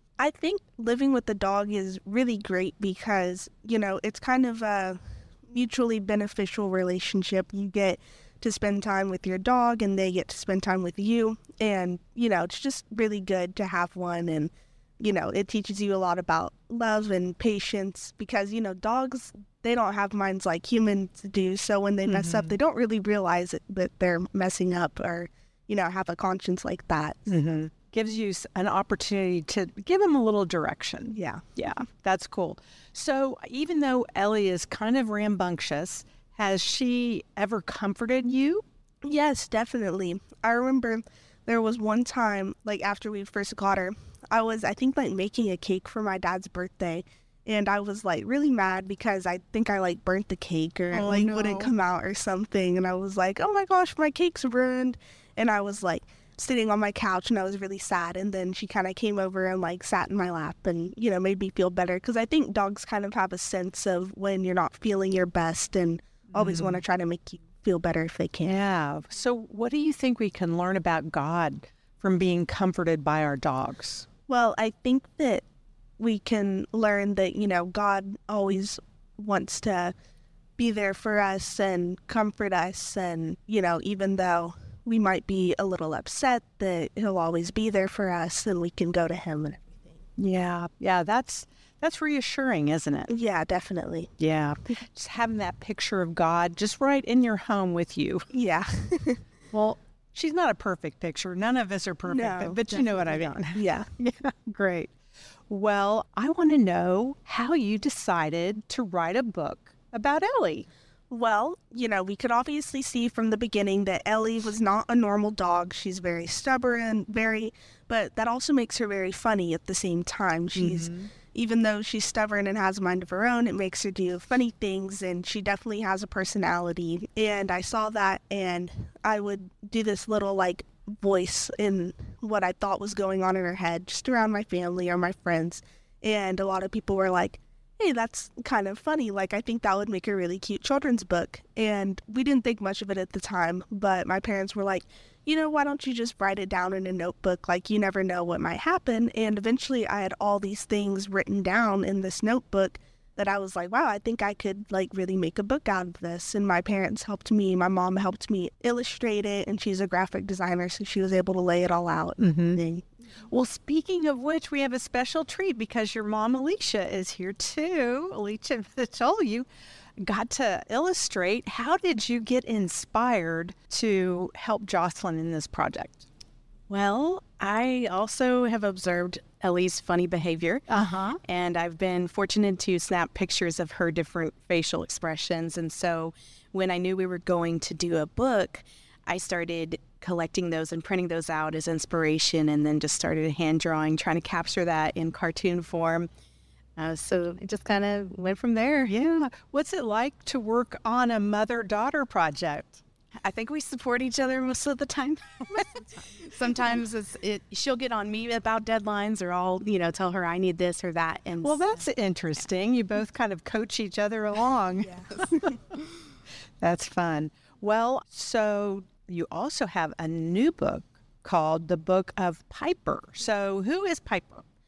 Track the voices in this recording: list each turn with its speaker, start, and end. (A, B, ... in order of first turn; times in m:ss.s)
0:00.2-0:27.2 A
0:22.1-0:22.5 B
0:27.3-0:38.6 B
0:31.1-0:31.4 A
0:39.0-1:08.5 A
0:50.9-0:51.7 B
1:06.3-1:06.8 B
1:08.4-1:14.0 B
1:14.3-1:15.4 A
1:16.0-1:19.9 A
1:20.6-1:30.0 A
1:30.2-1:33.1 B
1:33.1-1:34.1 A
1:34.2-1:38.2 B
1:38.3-1:39.2 A
1:39.5-1:44.9 B
1:42.1-1:43.9 A
1:45.5-1:50.7 B
1:51.1-2:42.8 A
2:00.6-2:01.1 B
2:42.2-2:42.6 B
2:43.3-2:49.4 B
2:50.0-2:56.0 B
2:56.7-3:00.6 C
3:00.7-3:01.2 B
3:01.2-3:16.1 C
3:16.8-3:18.9 C
3:18.9-3:22.8 B
3:23.2-3:31.8 C
3:31.4-3:35.5 B
3:34.8-3:35.6 A
3:36.6-3:44.4 B